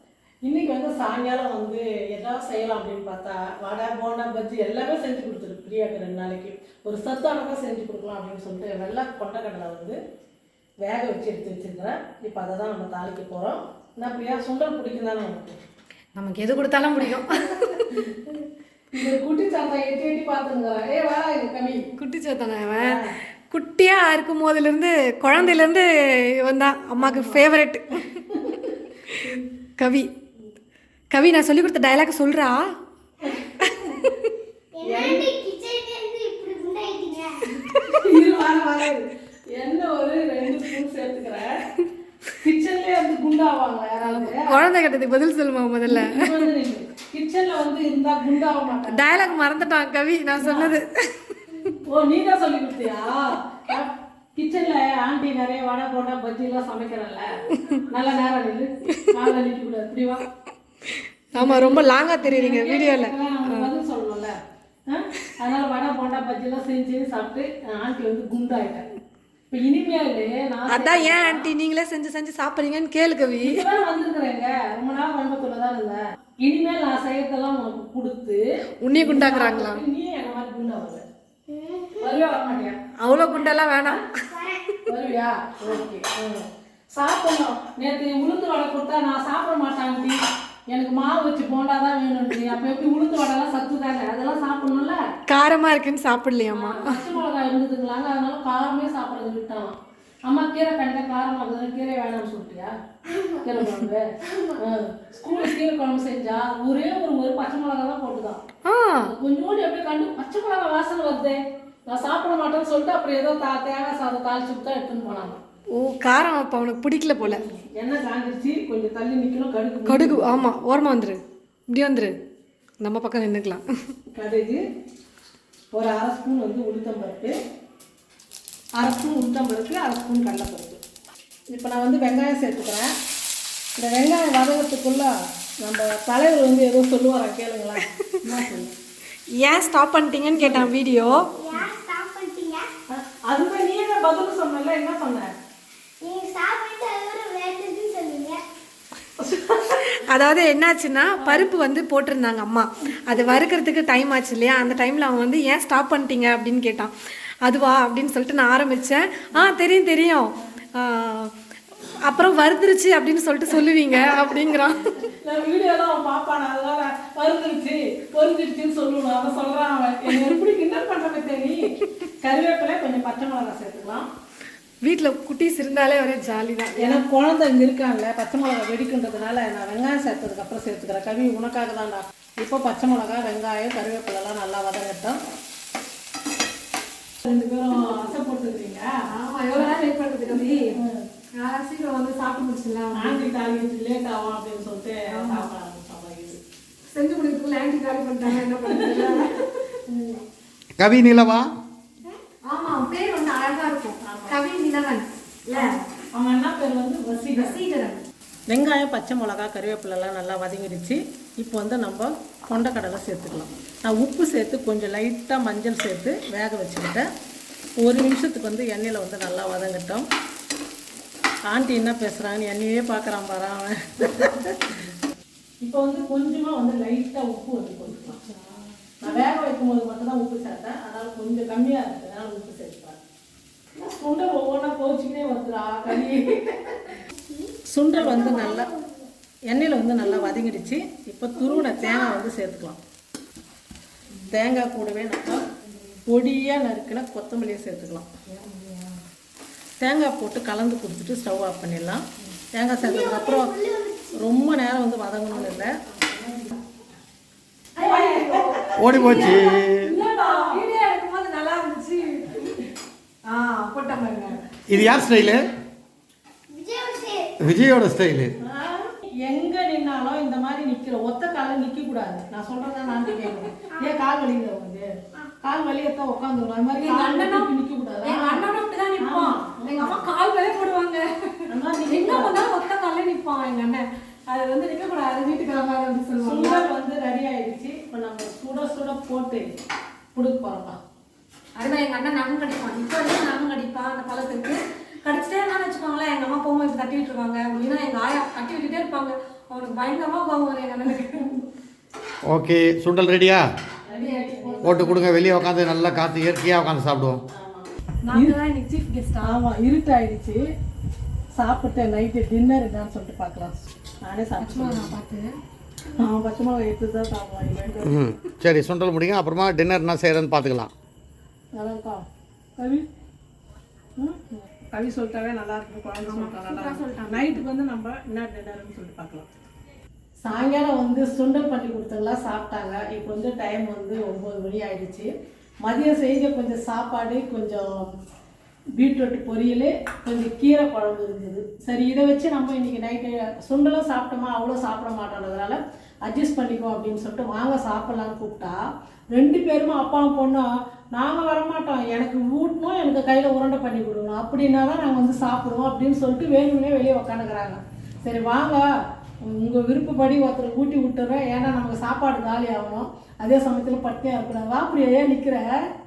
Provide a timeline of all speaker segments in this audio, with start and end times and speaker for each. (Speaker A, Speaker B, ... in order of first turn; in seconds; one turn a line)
Speaker A: 0.4-10.0
Speaker A: 10.8-15.6
Speaker B: 16.1-18.0
Speaker A: 17.9-18.4
Speaker A: 18.9-21.9
Speaker B: 22.0-28.3
Speaker A: 22.8-23.1
Speaker A: 25.3-25.6
Speaker A: 27.0-27.4
Speaker A: 28.3-29.4
Speaker B: 29.8-30.1
Speaker B: 31.1-32.6
Speaker B: 33.6-34.3
Speaker C: 34.7-37.4
Speaker A: 34.8-35.3
Speaker A: 37.9-41.5
Speaker A: 42.4-44.6
Speaker B: 44.0-46.5
Speaker A: 45.9-49.0
Speaker B: 48.8-51.7
Speaker A: 50.4-50.7
Speaker A: 51.8-57.3
Speaker B: 57.5-57.9
Speaker A: 57.9-60.3
Speaker B: 60.9-63.7
Speaker A: 61.4-64.4
Speaker A: 64.9-68.9
Speaker A: 69.5-71.5
Speaker B: 70.7-73.7
Speaker A: 73.5-78.4
Speaker B: 78.8-79.8
Speaker A: 79.0-81.0
Speaker C: 81.5-82.2
Speaker A: 82.0-82.8
Speaker B: 83.0-84.0
Speaker C: 84.3-84.8
Speaker A: 84.9-90.2
Speaker A: 90.7-95.0
Speaker B: 95.3-97.0
Speaker A: 96.5-102.7
Speaker C: 103.1-103.4
Speaker A: 103.4-108.4
Speaker B: 108.7-109.1
Speaker A: 109.1-115.4
Speaker B: 115.7-117.4
Speaker A: 117.2-120.5
Speaker B: 119.9-122.2
Speaker B: 122.8-123.6
Speaker A: 124.1-124.6
Speaker A: 125.7-127.4
Speaker A: 128.8-130.8
Speaker A: 131.5-132.9
Speaker A: 133.8-138.7
Speaker B: 139.3-141.3
Speaker A: 140.4-141.6
Speaker C: 141.3-142.7
Speaker A: 142.9-145.3
Speaker C: 146.0-148.4
Speaker A: 149.2-149.9
Speaker B: 149.9-156.9
Speaker A: 151.2-151.5
Speaker B: 157.4-161.3
Speaker B: 162.0-165.0
Speaker A: 165.1-174.1
Speaker B: 174.8-177.0
Speaker A: 176.8-185.2
Speaker A: 187.2-188.9
Speaker B: 189.1-190.8
Speaker A: 190.7-191.0
Speaker B: 191.4-193.3
Speaker A: 192.9-196.4
Speaker B: 195.1-195.5
Speaker B: 196.9-199.8
Speaker A: 198.6-199.3
Speaker A: 199.9-200.2
Speaker D: 200.8-201.5
Speaker B: 202.5-205.7
Speaker A: 204.0-204.4
Speaker A: 205.6-207.6
Speaker B: 207.4-208.0
Speaker A: 208.5-217.1
Speaker A: 217.8-220.1
Speaker A: 221.5-224.8
Speaker A: 225.6-228.2
Speaker A: 229.0-233.0
Speaker A: 233.8-237.0
Speaker C: 237.1-239.1
Speaker A: 237.7-238.7
Speaker A: 239.5-242.8
Speaker C: 240.0-240.3
Speaker C: 241.4-242.2
Speaker A: 244.3-245.4
Speaker B: 245.7-245.9
Speaker A: 246.1-248.1
Speaker B: 248.3-249.0
Speaker A: 249.8-253.5
Speaker C: 252.8-254.3
Speaker A: 254.2-256.4
Speaker B: 255.9-256.2
Speaker A: 257.8-260.6
Speaker B: 257.8-262.6
Speaker D: 258.8-260.0
Speaker B: 263.3-264.4
Speaker D: 264.7-265.4
Speaker C: 266.5-267.3
Speaker D: 267.4-268.3
Speaker A: 268.4-274.9
Speaker A: 275.4-280.1
Speaker B: 276.8-277.5
Speaker B: 278.0-286.6
Speaker A: 281.5-282.3
Speaker A: 286.2-289.5
Speaker A: 290.1-290.8
Speaker B: 291.6-301.4
Speaker D: 302.3-303.5
Speaker A: 303.9-305.0
Speaker B: 303.9-305.0
Speaker D: 304.6-307.2
Speaker A: 307.3-308.3
Speaker B: 308.0-309.4
Speaker A: 309.2-310.5
Speaker A: 311.4-314.9
Speaker B: 314.4-315.4
Speaker A: 315.9-318.1
Speaker D: 317.9-320.7
Speaker A: 321.5-322.0
Speaker A: 322.6-322.9
Speaker A: 324.0-329.3
Speaker B: 326.0-327.3
Speaker A: 330.2-335.1
Speaker A: 335.6-337.9
Speaker A: 338.8-348.6
Speaker A: 349.1-358.7
Speaker A: 359.2-365.5